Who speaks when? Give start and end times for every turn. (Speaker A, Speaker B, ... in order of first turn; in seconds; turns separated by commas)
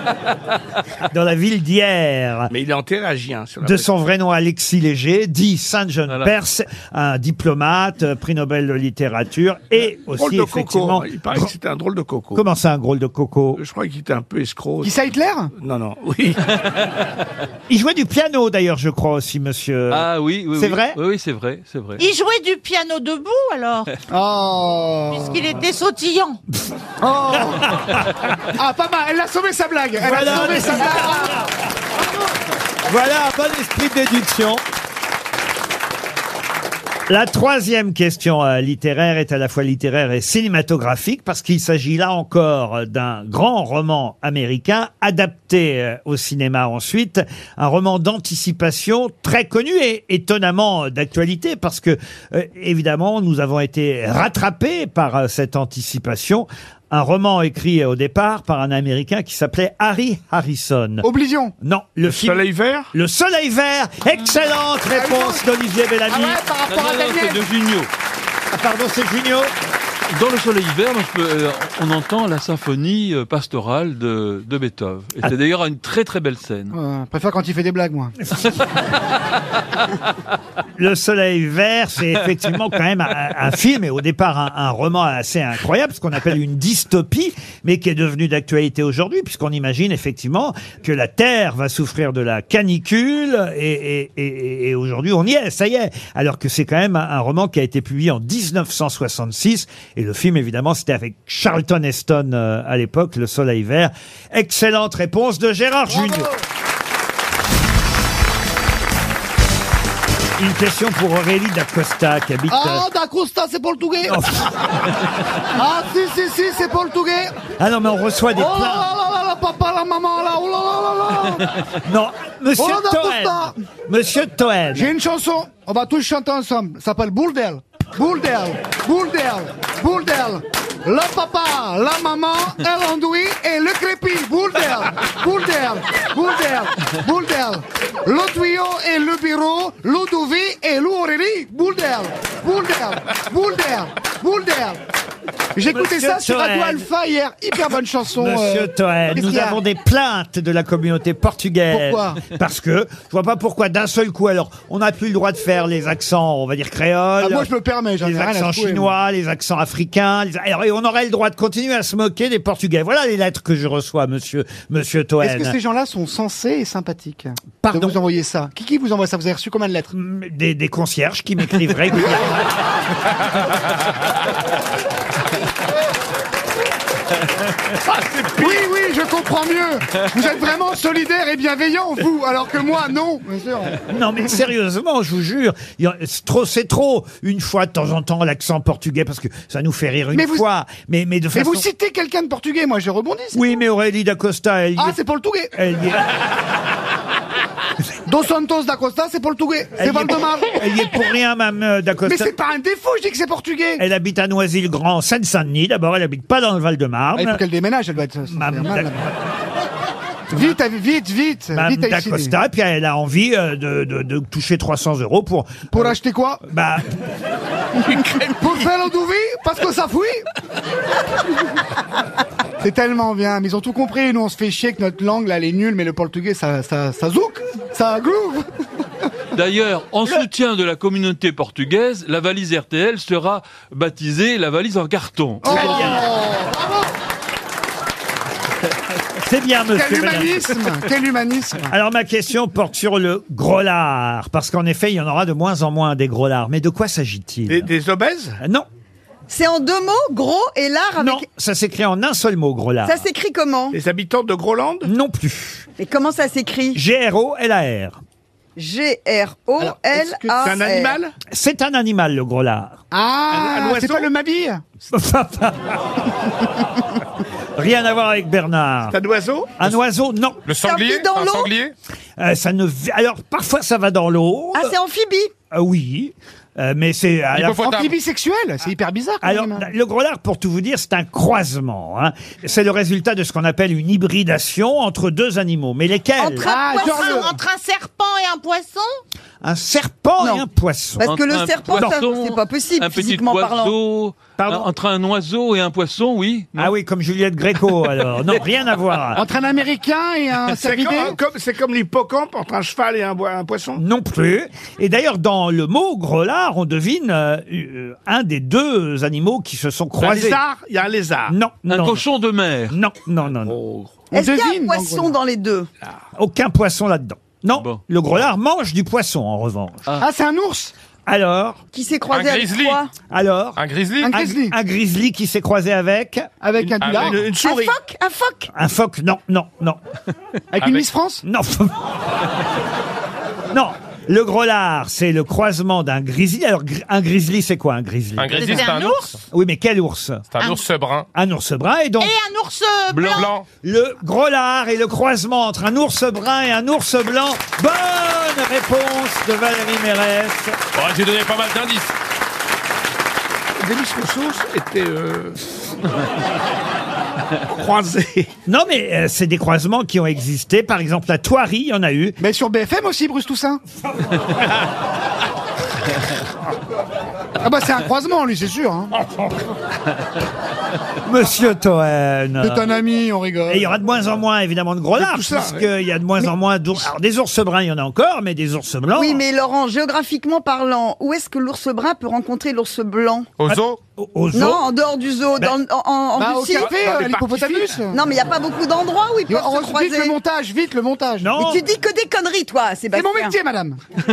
Speaker A: 1.1-2.5, Speaker B: 2.5-3.9, Speaker A: 3.6-11.5, Speaker B: 10.1-12.4, Speaker A: 12.3-13.6, Speaker B: 13.6-15.1, Speaker C: 14.8-15.5, Speaker B: 15.6-16.5, Speaker A: 17.7-21.0, Speaker D: 19.9-22.0, Speaker E: 22.0-23.9, Speaker C: 24.1-25.5, Speaker E: 25.1-26.4, Speaker C: 27.0-27.8, Speaker A: 27.4-28.0, Speaker C: 28.5-31.4, Speaker A: 30.0-31.5, Speaker F: 30.3-31.2, Speaker A: 32.9-34.6, Speaker A: 37.1-61.0, Speaker C: 61.0-61.5, Speaker A: 61.6-66.4, Speaker B: 62.1-62.9, Speaker C: 64.8-65.4, Speaker C: 66.1-67.5, Speaker D: 66.7-67.9, Speaker A: 68.5-69.5, Speaker D: 70.1-76.8, Speaker C: 76.7-78.2, Speaker A: 80.8-106.3, Speaker C: 105.9-106.4, Speaker A: 110.4-112.8, Speaker C: 112.5-114.2, Speaker A: 114.0-114.8, Speaker C: 115.5-117.3, Speaker A: 117.6-118.9, Speaker C: 118.3-121.5, Speaker A: 121.8-124.9, Speaker C: 122.5-123.6, Speaker C: 124.7-144.8, Speaker C: 145.5-149.6, Speaker A: 145.7-146.9, Speaker A: 148.2-165.6, Speaker C: 151.7-152.2, Speaker C: 157.2-158.9, Speaker C: 165.2-169.9, Speaker A: 167.6-168.0, Speaker A: 169.9-172.4, Speaker B: 177.8-178.6, Speaker C: 178.3-183.8, Speaker A: 183.9-191.6, Speaker C: 190.1-190.4, Speaker C: 191.3-193.5, Speaker A: 193.3-195.0, Speaker C: 194.8-195.6, Speaker A: 195.5-196.0, Speaker C: 198.1-200.6, Speaker A: 199.8-202.3, Speaker C: 202.0-203.8, Speaker A: 203.8-207.4, Speaker C: 207.1-209.1, Speaker A: 208.3-209.1, Speaker C: 210.3-212.3, Speaker A: 211.5-217.0, Speaker C: 215.7-216.4, Speaker C: 217.9-220.2, Speaker C: 222.6-228.4, Speaker D: 229.3-235.9, Speaker C: 235.4-236.9, Speaker A: 235.4-236.0, Speaker A: 239.2-240.6, Speaker C: 239.7-241.7, Speaker A: 241.7-247.7, Speaker B: 247.5-248.4, Speaker A: 248.4-248.7, Speaker F: 249.3-251.2, Speaker A: 251.0-253.0, Speaker F: 252.8-253.8, Speaker B: 253.7-254.9, Speaker A: 254.8-255.7, Speaker F: 255.8-256.8, Speaker A: 256.7-258.0, Speaker F: 258.6-261.0, Speaker C: 259.6-260.5, Speaker B: 260.4-261.1, Speaker A: 261.3-262.8, Speaker C: 262.9-264.6, Speaker B: 263.3-264.1, Speaker A: 264.9-266.0, Speaker A: 267.6-269.0, Speaker B: 268.9-269.7, Speaker A: 269.6-270.4, Speaker G: 270.4-271.7, Speaker F: 270.6-271.5, Speaker A: 272.2-274.7, Speaker F: 274.5-275.3, Speaker A: 275.5-277.7, Speaker G: 277.3-277.9, Speaker C: 277.6-279.7, Speaker A: 279.2-286.4, Speaker F: 286.2-287.2, Speaker E: 286.4-288.9, Speaker C: 286.4-287.3, Speaker A: 289.4-291.1, Speaker F: 290.2-290.4, Speaker F: 291.0-293.8, Speaker D: 291.0-296.7, Speaker A: 291.7-292.0, Speaker A: 294.4-294.7, Speaker A: 296.6-299.2, Speaker C: 299.1-301.2, Speaker B: 300.5-303.8, Speaker A: 303.8-310.4, Speaker B: 310.0-311.3, Speaker A: 311.3-312.1, Speaker D: 311.7-312.8, Speaker A: 312.7-313.6, Speaker B: 313.4-314.0, Speaker C: 314.1-315.1, Speaker F: 314.1-315.7, Speaker A: 316.1-320.0, Speaker C: 320.0-320.7, Speaker A: 321.1-321.6, Speaker F: 321.7-322.9, Speaker G: 322.1-322.8, Speaker A: 323.1-326.3, Speaker G: 323.6-324.2, Speaker C: 324.0-324.6, Speaker C: 326.4-327.3, Speaker B: 326.6-327.8, Speaker G: 326.8-327.2, Speaker F: 327.4-328.5, Speaker A: 328.5-329.8, Speaker C: 330.5-331.2, Speaker G: 330.6-330.9, Speaker A: 331.2-331.8, Speaker A: 333.5-338.7, Speaker G: 338.2-339.1, Speaker E: 338.4-339.2, Speaker A: 339.3-340.2, Speaker G: 340.3-341.1, Speaker A: 341.1-342.1, Speaker E: 342.0-343.3, Speaker D: 342.9-343.2, Speaker G: 343.1-343.4, Speaker A: 343.6-350.6, Speaker G: 350.7-351.9, Speaker B: 353.6-355.4, Speaker B: 357.4-358.3, Speaker A: 358.4-362.2, Speaker C: 362.2-363.6, Speaker C: 367.4-369.0, Speaker A: 371.0-372.6, Speaker C: 372.4-373.8, Speaker A: 373.5-379.2, Speaker B: 375.0-375.6, Speaker F: 378.9-383.3, Speaker G: 383.4-383.8, Speaker A: 383.5-384.6, Speaker F: 384.3-386.7, Speaker C: 386.1-388.0, Speaker B: 386.6-387.8, Speaker F: 387.9-390.1, Speaker C: 389.3-391.4, Speaker A: 391.2-391.6, Speaker F: 391.4-393.3, Speaker C: 392.9-393.8